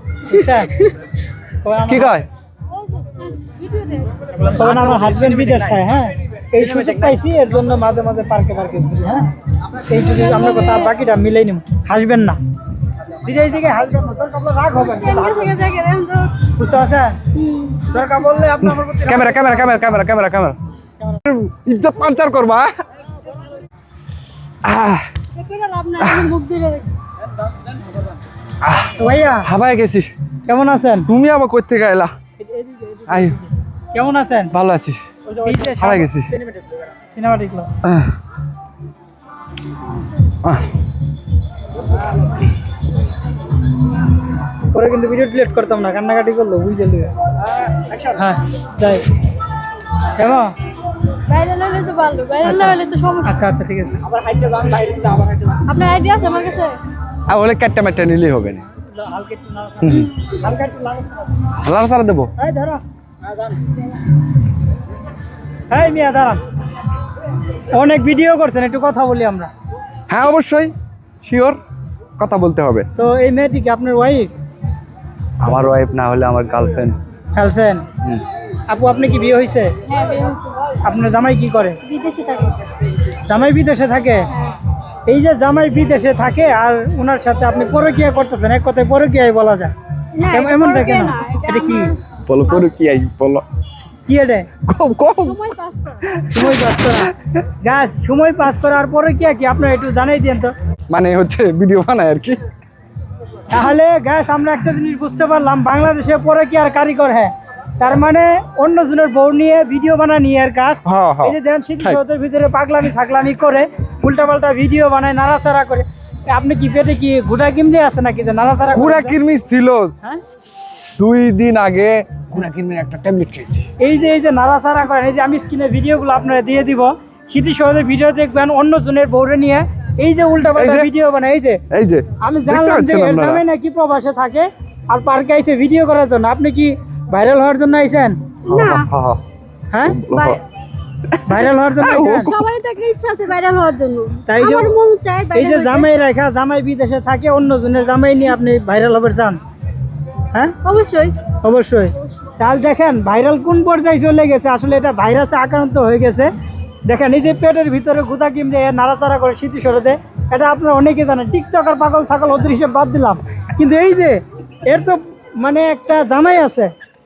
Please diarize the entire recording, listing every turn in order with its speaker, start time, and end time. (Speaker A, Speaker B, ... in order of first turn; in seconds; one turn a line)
Speaker A: 0.2-0.8
Speaker A: 1.6-2.2
Speaker B: 1.9-2.2
Speaker C: 3.4-4.1
Speaker A: 4.4-12.4
Speaker C: 10.1-10.9
Speaker A: 13.1-15.6
Speaker C: 14.8-16.5
Speaker A: 16.5-17.2
Speaker C: 17.3-17.9
Speaker A: 17.9-19.8
Speaker B: 18.6-20.6
Speaker B: 21.2-22.7
Speaker B: 24.6-25.1
Speaker C: 25.4-26.9
Speaker B: 26.0-26.4
Speaker B: 28.6-30.1
Speaker A: 29.0-29.5
Speaker A: 30.4-31.1
Speaker B: 31.0-32.1
Speaker B: 33.0-33.4
Speaker A: 33.9-34.5
Speaker B: 34.5-35.0
Speaker A: 35.3-36.1
Speaker B: 35.6-36.3
Speaker A: 37.1-37.7
Speaker B: 37.8-38.1
Speaker B: 40.4-40.7
Speaker A: 44.7-47.1
Speaker A: 47.9-49.1
Speaker A: 50.1-50.5
Speaker C: 51.3-53.3
Speaker A: 52.4-54.1
Speaker C: 55.4-56.8
Speaker B: 57.3-58.6
Speaker A: 58.8-61.5
Speaker B: 59.8-60.1
Speaker B: 61.6-62.3
Speaker A: 62.4-62.8
Speaker A: 65.7-66.4
Speaker A: 67.7-69.5
Speaker B: 70.1-71.6
Speaker B: 72.2-72.9
Speaker A: 73.0-74.3
Speaker B: 75.4-76.9
Speaker A: 77.3-77.8
Speaker A: 78.7-79.7
Speaker C: 79.8-80.8
Speaker A: 80.8-81.8
Speaker C: 81.8-82.6
Speaker A: 83.2-84.3
Speaker A: 85.1-89.7
Speaker C: 90.2-92.0
Speaker A: 90.3-91.9
Speaker B: 92.3-93.4
Speaker A: 94.0-94.5
Speaker B: 94.6-95.4
Speaker C: 95.2-96.0
Speaker B: 96.0-97.4
Speaker A: 96.3-100.5
Speaker B: 100.9-102.4
Speaker A: 103.5-119.1
Speaker B: 110.8-112.0
Speaker B: 118.7-119.9
Speaker B: 121.0-123.7
Speaker A: 123.8-131.6
Speaker B: 130.5-130.9
Speaker B: 131.7-133.4
Speaker A: 132.2-138.2
Speaker C: 138.4-138.9
Speaker B: 138.5-139.2
Speaker A: 139.7-140.4
Speaker B: 139.8-140.4
Speaker B: 141.1-142.3
Speaker A: 141.2-142.3
Speaker C: 142.2-145.9
Speaker A: 144.2-144.7
Speaker A: 145.3-149.4
Speaker C: 150.6-151.2
Speaker A: 151.4-156.3
Speaker A: 156.9-166.7